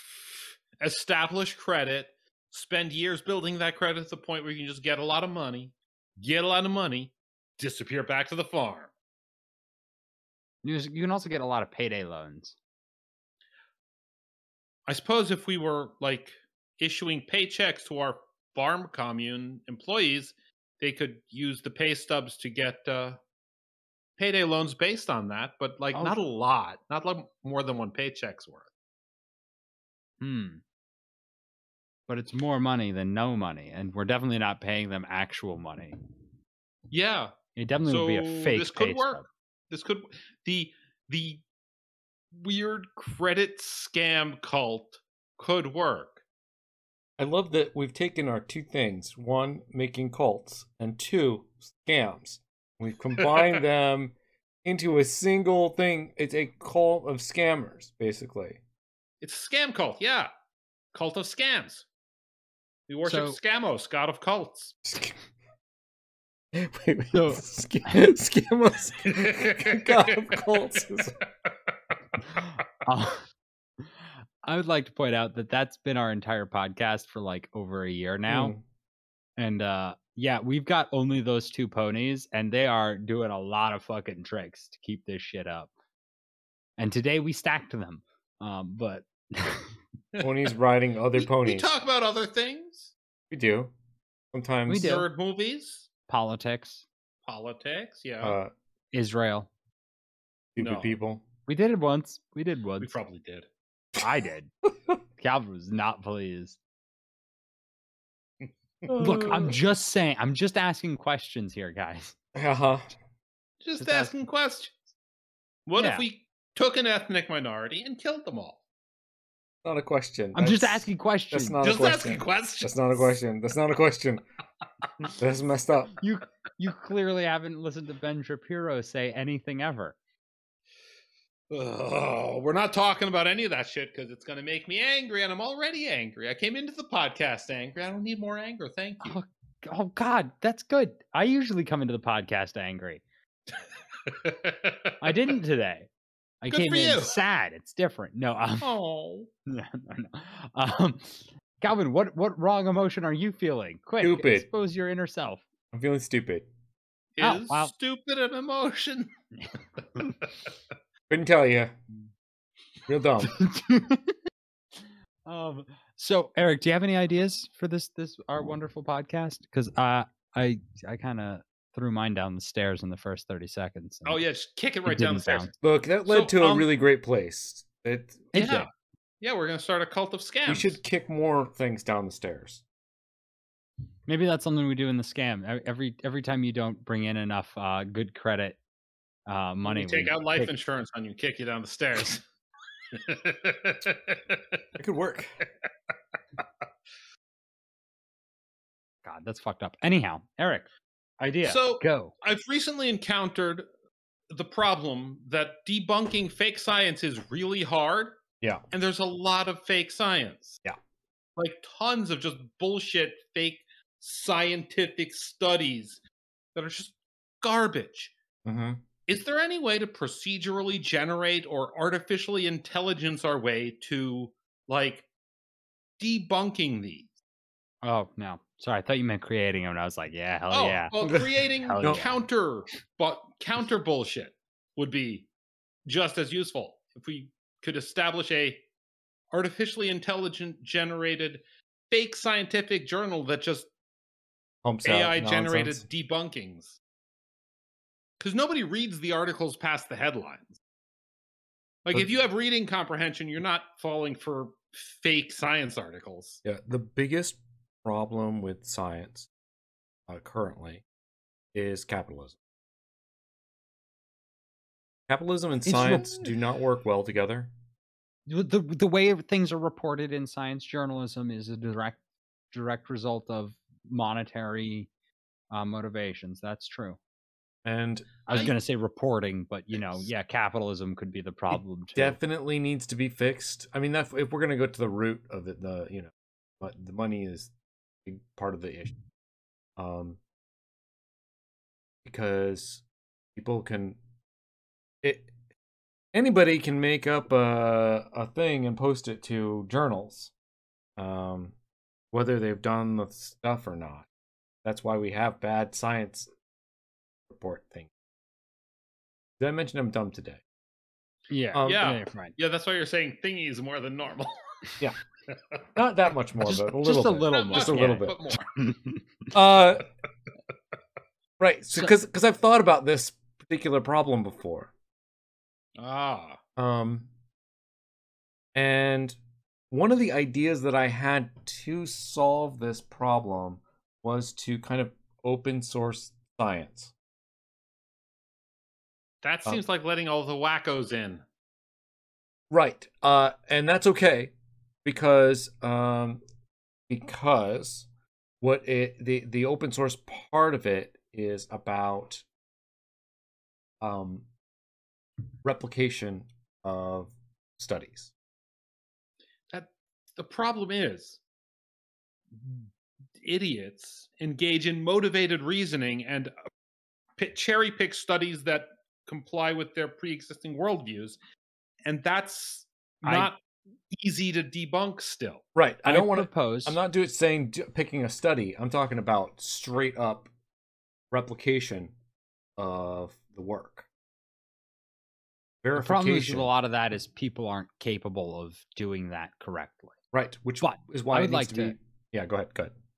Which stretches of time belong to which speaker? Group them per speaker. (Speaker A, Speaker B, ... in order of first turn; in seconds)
Speaker A: 0.8-8.9, 14.9-23.2, 24.2-28.7, 36.9-41.4, 42.3-46.2, 53.2-53.6, 59.2-60.3, 60.9-61.9, 62.9-64.8, 69.0-70.8, 91.2-92.9, 94.8-95.9, 97.2-98.4, 100.6-101.0, 102.8-103.5, 109.1-109.4, 113.6-114.8, 115.7-118.6, 121.6-123.0, 131.5-139.2, 144.1-145.1, 146.5-147.2, 148.6-149.3, 157.2-159.1, 174.1-175.6, 176.1-176.7, 178.3-178.7, 179.2-180.8, 189.7-192.2, 192.9-194.4, 201.4-203.7, 204.3-208.2, 208.7-210.6, 211.4-216.0, 216.6-218.1, 219.1-225.1, 226.0-227.1, 230.5-235.3, 235.9-238.6, 239.3-243.7, 244.8-246.8, 248.2-250.6, 251.8-256.4, 278.3-278.5, 311.6-314.4, 317.3-318.5, 325.8-326.4, 339.2-341.2, 359.5-361.2, 362.3-362.7, 363.2-366.3, 367.2-371.2, 371.9-373.4, 373.9-375.4
Speaker B: 10.6-12.6, 30.2-30.6, 32.1-36.0, 37.5-39.2, 63.0-63.4, 67.1-68.0, 72.4-73.2, 73.8-78.5, 79.4-85.7, 86.8-89.7, 94.7-95.1, 96.1-96.8, 98.9-99.5, 101.5-102.9, 104.0-104.5, 105.2-106.6, 109.0-112.1, 113.8-114.1, 115.8-116.1, 120.3-121.6, 126.0-130.0, 139.0-143.0, 145.0-145.9, 146.4-148.7, 149.5-155.4, 157.2-157.7, 163.2-164.2, 165.2-174.2, 174.9-175.5, 178.3-178.7, 184.1-188.6, 189.3-190.5, 199.0-200.7, 201.2-202.1, 227.8-232.2, 265.7-266.2, 268.3-272.0, 272.5-274.9, 275.5-277.0, 278.3-282.2, 311.3-312.3, 316.5-319.0, 373.0-373.3, 375.9-376.8, 385.8-389.9, 390.6-391.8
Speaker C: 47.2-58.6, 64.9-65.2, 66.5-71.2, 78.3-78.6, 90.2-91.7, 93.3-93.7, 94.3-94.9, 98.2-98.5, 100.6-101.2, 108.8-109.6, 112.3-112.9, 119.6-124.2, 125.2-126.0, 154.0-154.5, 155.7-156.5, 161.1-161.7, 162.9-163.3, 175.6-178.4, 180.5-182.6, 194.8-195.3, 218.4-218.8, 244.6-245.8, 256.4-259.3, 260.1-260.8, 261.5-262.4, 265.1-267.5, 277.6-278.1, 281.9-287.5, 288.1-288.9, 289.8-290.2, 292.1-292.8, 293.4-294.0, 295.0-295.3, 296.1-300.3, 301.0-301.5, 302.1-304.1, 304.6-306.3, 307.3-307.9, 309.4-310.4, 311.5-311.9, 315.8-318.2, 319.3-319.9, 321.4-324.7, 326.6-327.1, 328.6-329.2, 329.7-336.9, 342.5-346.2, 346.9-347.9, 348.4-352.2, 353.8-354.2, 355.4-358.1, 375.6-380.3, 381.1-381.9, 382.6-383.9, 385.6-386.5, 390.1-392.7